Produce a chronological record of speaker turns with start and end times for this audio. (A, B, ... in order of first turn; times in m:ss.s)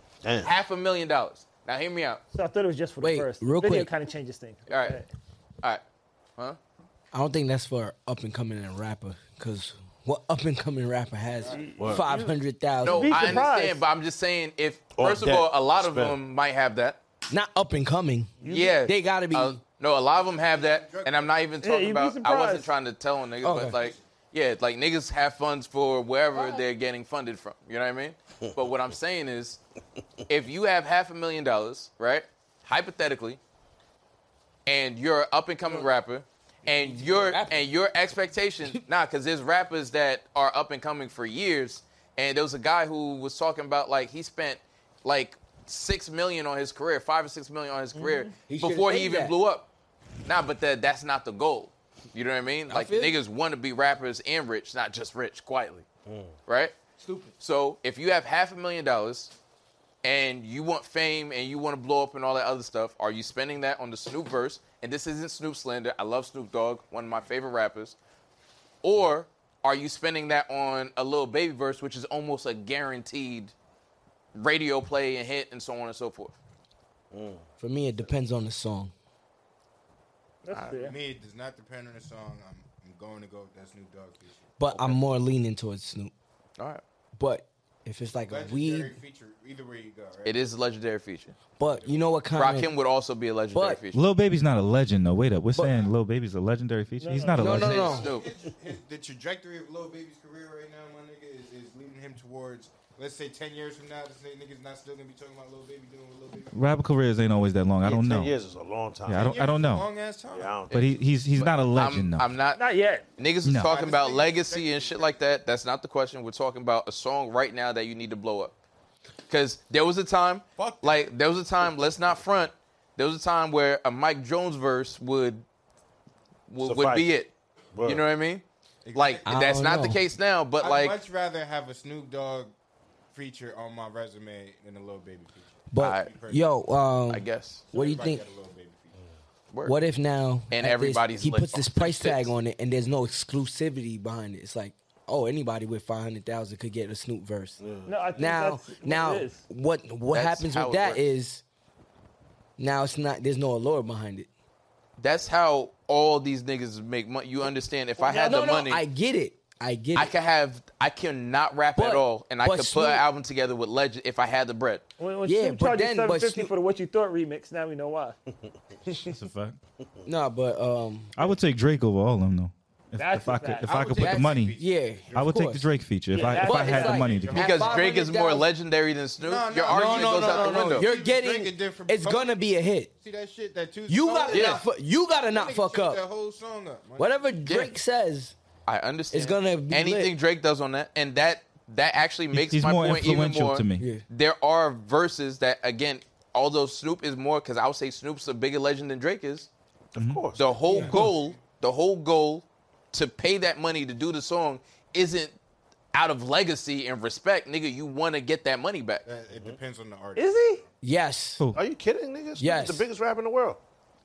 0:00.2-0:00.5 A
0:00.4-0:02.2 B
0:02.3-0:05.1 C
0:03.0-0:03.9 D
0:04.7-0:05.0 B
0:07.1-0:13.4 D
0:11.4-0:11.8 E
0:11.4-0:13.8 C
0:11.8-0:12.0 A
0:12.8-0:17.0 B
0:15.0-0:16.2 A
0:17.3-0:19.6 D
0:18.4-0:18.8 C
0:18.5-0:29.6 B
0:20.1-0:21.4 E
0:21.6-0:22.7 C
0:23.4-0:23.9 D
0:30.3-0:33.4 B
0:34.7-0:49.7 B
0:36.7-0:37.7 D
0:48.0-0:48.3 C
0:48.4-0:49.4 D
0:50.3-0:55.9 B
0:52.7-0:53.2 D
0:56.1-0:56.3 A
0:56.5-0:56.7 B
0:57.4-0:59.3 B
1:00.0-1:08.0 B
1:08.8-1:13.5 B
1:14.4-1:16.4 B
1:17.1-1:17.5 A
1:17.6-1:18.9 D
1:20.4-1:21.0 C
1:20.6-1:24.5 E
1:24.6-1:26.1 D
1:24.7-1:25.0 B
1:27.2-1:29.0 D
1:28.2-1:30.5 E
1:30.2-1:31.4 B
1:31.6-1:32.7 D
1:31.6-1:32.3 E
1:32.3-1:34.0 B
1:33.5-1:33.8 D
1:33.9-1:37.9 F
1:35.5-1:35.9 D
1:37.0-1:37.6 C
1:37.3-1:46.8 E
1:37.4-1:38.2 D
1:37.4-1:38.3 B
1:46.5-1:48.3 F
1:47.8-1:49.4 A
1:49.1-1:49.9 F
1:49.1-1:50.7 E
1:50.3-1:50.8 A
1:50.7-1:52.3 F
1:50.7-1:52.6 B
1:52.6-1:53.0 C
1:53.2-1:58.5 B
1:53.4-1:53.8 F
1:53.6-1:55.2 E
1:59.3-2:05.4 B
2:00.6-2:01.1 E
2:06.5-2:07.3 B
2:06.6-2:07.1 A
2:07.7-2:08.0 A
2:07.8-2:11.0 B
2:08.8-2:09.3 E
2:09.2-2:10.0 D
2:10.6-2:12.5 E
2:13.1-2:16.5 E
2:15.7-2:18.3 D
2:15.8-2:16.1 B
2:17.1-2:17.6 B
2:17.7-2:19.0 E
2:19.5-2:19.8 B
2:19.7-2:27.6 D
2:20.5-2:22.4 B
2:27.6-2:27.9 A
2:27.9-2:29.4 C
2:28.2-2:31.4 D
2:30.1-2:31.1 B
2:32.6-2:34.3 D
2:35.0-2:38.8 B
2:38.0-2:38.5 C
2:38.0-2:40.1 D
2:39.9-2:44.8 B
2:41.8-2:43.0 D
2:45.0-2:48.2 C
2:45.2-2:46.5 D
2:48.9-2:49.1 C
2:49.0-2:49.6 F
2:50.0-2:51.2 D
2:51.2-2:54.6 F
2:53.0-2:53.7 C
2:53.6-2:55.4 E
2:54.0-2:58.5 D
2:55.2-2:57.4 F
2:56.1-2:57.1 C
2:56.5-2:58.1 E
2:57.3-3:00.9 B
2:59.2-3:02.4 E
2:59.7-3:02.9 D
3:03.0-3:04.7 E
3:03.9-3:06.0 D
3:04.3-3:04.6 B
3:05.2-3:07.4 E
3:07.0-3:08.4 D
3:07.4-3:07.7 B
3:08.7-3:19.5 B
3:09.1-3:10.2 D
3:12.3-3:13.9 F
3:13.8-3:14.0 D
3:19.9-3:20.5 A
3:20.0-3:20.2 F
3:20.4-3:25.4 B
3:20.7-3:21.2 E
3:20.9-3:21.1 F
3:25.9-3:29.0 B
3:29.0-3:30.7 E
3:29.3-3:29.6 A
3:30.2-3:30.6 C
3:30.8-3:31.4 D
3:31.5-3:33.6 A
3:32.4-3:32.9 D